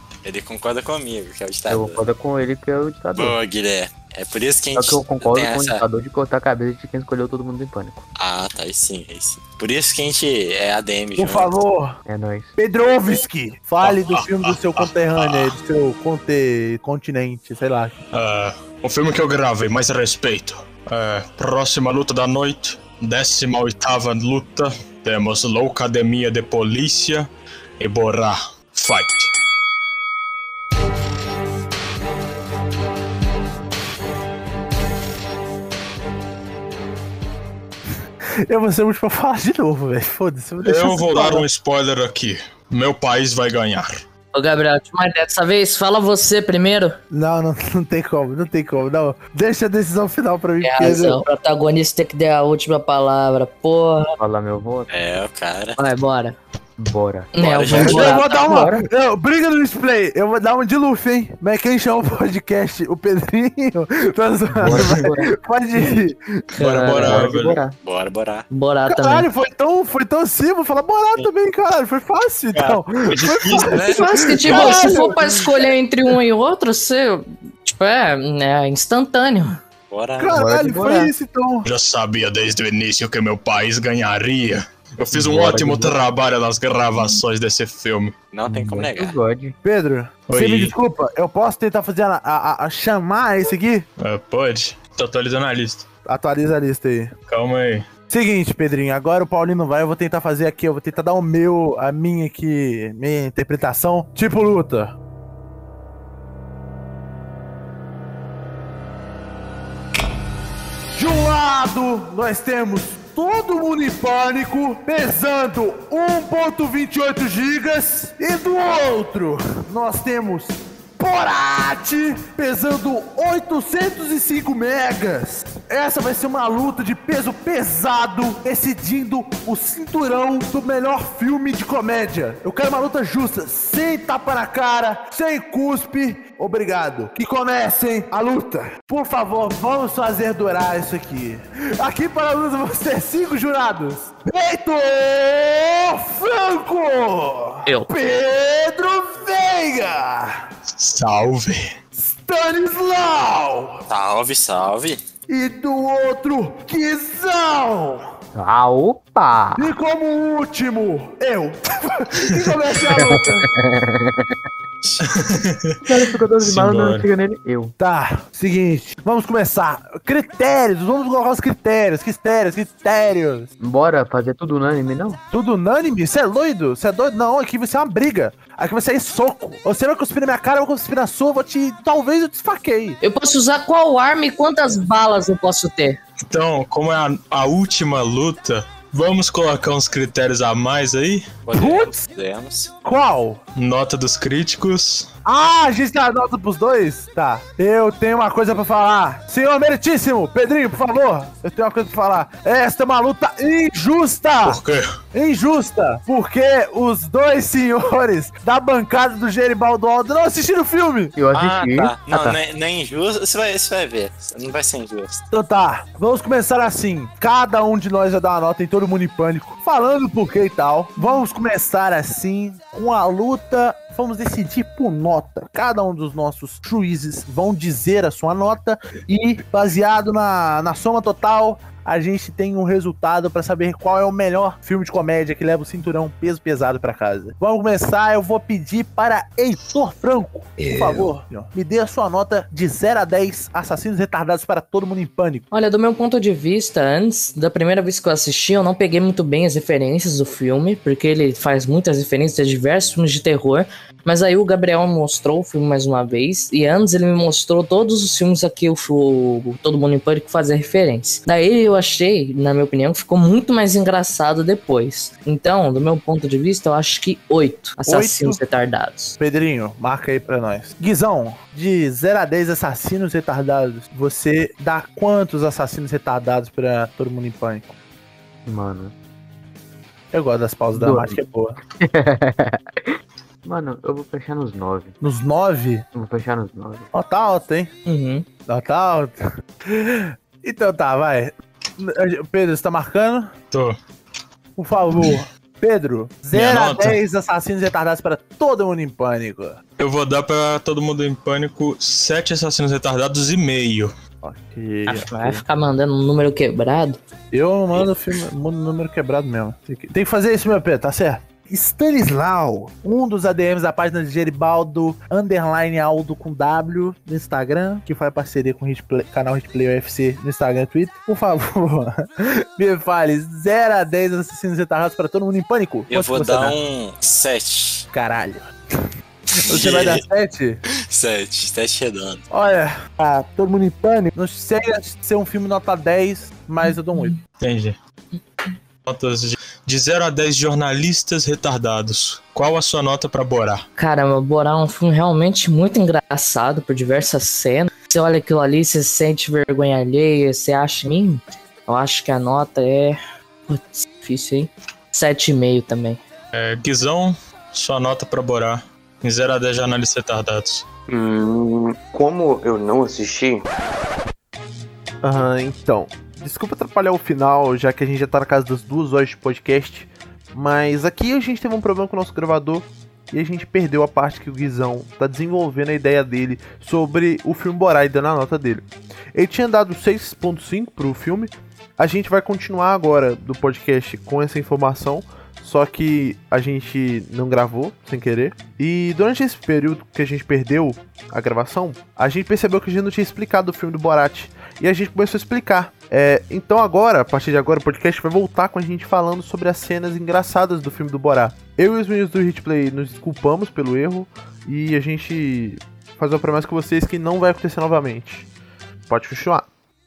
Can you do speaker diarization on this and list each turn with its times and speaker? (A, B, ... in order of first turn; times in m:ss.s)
0:00.2-0:02.0 A
0:01.7-0:03.4 B
0:03.2-0:05.8 A
0:04.8-0:08.0 B
0:08.2-0:11.5 A
0:11.2-0:12.0 C
0:12.1-0:12.5 B
0:12.6-0:18.0 C
0:18.1-0:29.3 D
0:38.5-0:41.5 C
0:40.6-0:44.0 D
0:44.3-0:47.0 E
0:47.1-0:51.2 C
0:50.6-0:54.1 E
0:54.2-0:54.9 B
0:54.9-0:55.8 A
0:55.8-0:56.4 E
0:56.8-0:58.1 B
0:57.3-0:58.7 E
0:57.4-0:58.2 A
0:57.7-1:06.4 C
1:04.6-1:06.0 B
1:04.6-1:05.0 D
1:06.6-1:07.3 E
1:06.6-1:07.6 D
1:07.0-1:07.8 B
1:07.8-1:08.5 A
1:08.5-1:09.3 E
1:08.9-1:15.5 C
1:12.5-1:14.9 A
1:13.2-1:13.7 D
1:13.9-1:19.6 E
1:19.9-1:20.4 A
1:20.2-1:21.7 C
1:20.3-1:21.1 B
1:21.6-1:28.2 D
1:25.1-1:26.1 B
1:28.3-1:29.2 A
1:28.5-1:29.6 B
1:29.6-1:33.9 C
1:30.3-1:30.7 D
1:34.0-1:35.9 D
1:36.1-1:37.1 C
1:37.3-1:37.9 D
1:38.1-1:45.0 C
1:50.9-2:30.4 C
2:30.7-2:31.6 D
2:32.0-2:33.8 C
2:33.9-2:35.0 A
2:35.3-2:38.1 C
2:38.3-2:39.7 B
2:39.6-2:43.5 C
2:42.9-2:44.4 B
2:44.8-2:47.1 D
2:45.8-2:47.7 B
2:47.8-2:53.5 C
2:53.6-2:55.2 B
2:55.3-3:03.0 C
3:03.0-3:06.0 E
3:06.3-3:11.3 D
3:11.5-3:12.7 A
3:11.5-3:12.0 C
3:12.8-3:13.4 C
3:13.6-3:15.1 D
3:15.2-3:24.6 C
3:24.5-3:24.9 D
3:25.1-3:31.1 C
3:31.2-3:32.4 B
3:31.3-3:35.2 A
3:35.3-4:05.4 C
4:00.6-4:01.1 E
4:05.5-4:29.2 E
4:27.8-4:28.4 C
4:29.2-4:37.7 C
4:38.5-4:38.9 B
4:40.1-4:41.6 C
4:40.8-4:41.2 B
4:41.8-4:42.6 B
4:43.4-4:45.0 B
4:45.0-4:45.9 C
4:45.9-4:46.9 B
4:46.9-4:47.7 C
4:47.9-4:48.2 E
4:48.5-4:53.3 C
4:53.5-4:53.8 D
4:54.6-4:59.6 C
4:56.3-4:57.0 D
4:59.8-5:03.9 D
5:04.2-5:05.4 C
5:04.9-5:07.0 E
5:07.3-5:26.6 C
5:25.9-5:27.9 A
5:27.9-5:30.6 C
5:29.4-5:30.0 A
5:30.9-5:32.2 A
5:32.3-5:37.2 C
5:36.9-5:37.2 E
5:37.4-5:37.8 D
5:38.8-5:43.6 D
5:43.8-5:56.0 E
5:56.3-6:00.6 D
6:00.9-6:03.4 F
6:05.0-6:48.3 C
6:48.9-6:49.4 C